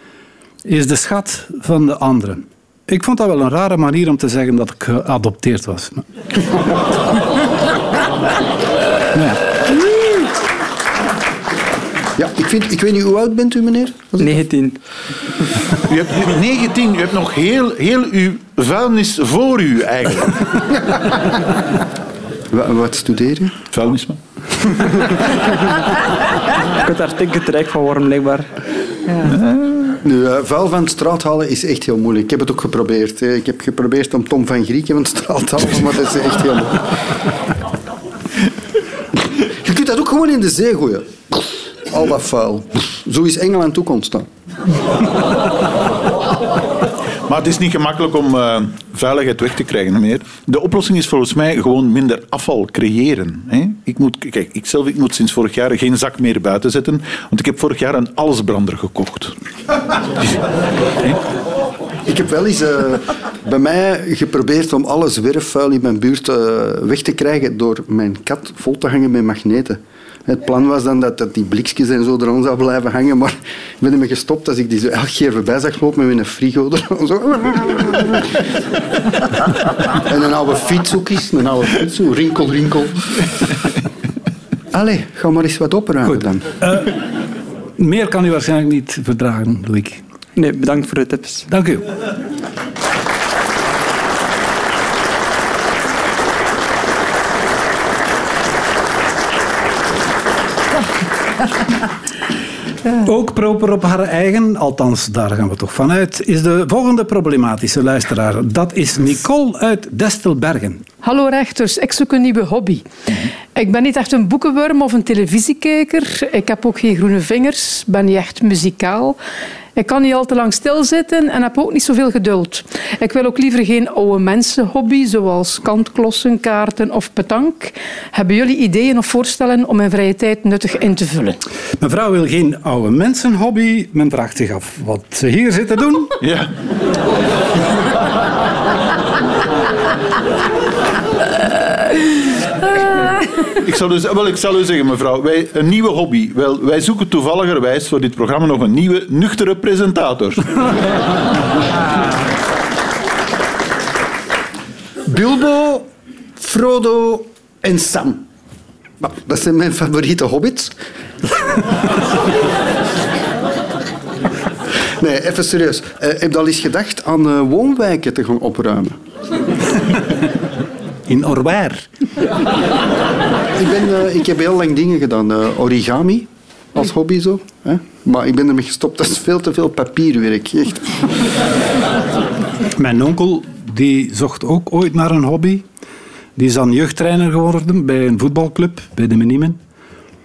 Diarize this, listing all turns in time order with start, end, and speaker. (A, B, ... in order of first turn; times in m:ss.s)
0:00.6-0:06.0 A
0:09.1-0:09.4 A
0:12.2-0:14.3 B
0:14.2-0:14.8 C
0:15.9-0:20.8 D
0:22.5-0:23.6 B
0:23.7-0:24.9 D
0:26.8-0:28.5 C
0:29.3-0:29.9 D
0:30.0-0:36.9 B
0:39.3-0:44.3 B
0:47.3-0:59.4 D
1:02.0-1:18.4 B
1:19.9-1:23.2 B
1:24.7-1:26.5 B
1:26.1-1:27.0 A
1:27.8-1:30.0 A
1:30.4-1:31.4 C
1:31.5-1:31.9 A
1:43.0-1:50.8 A
1:51.0-1:52.8 E
1:53.6-1:59.2 E
1:59.8-2:11.4 E
2:11.8-2:16.2 A
2:16.2-2:16.5 D
2:23.6-2:30.7 D
2:35.0-2:38.2 B
2:39.0-2:40.8 B
2:45.0-2:49.0 B
2:51.1-2:51.9 A
2:53.5-3:01.0 B
3:02.8-3:05.6 A
3:06.4-3:09.6 A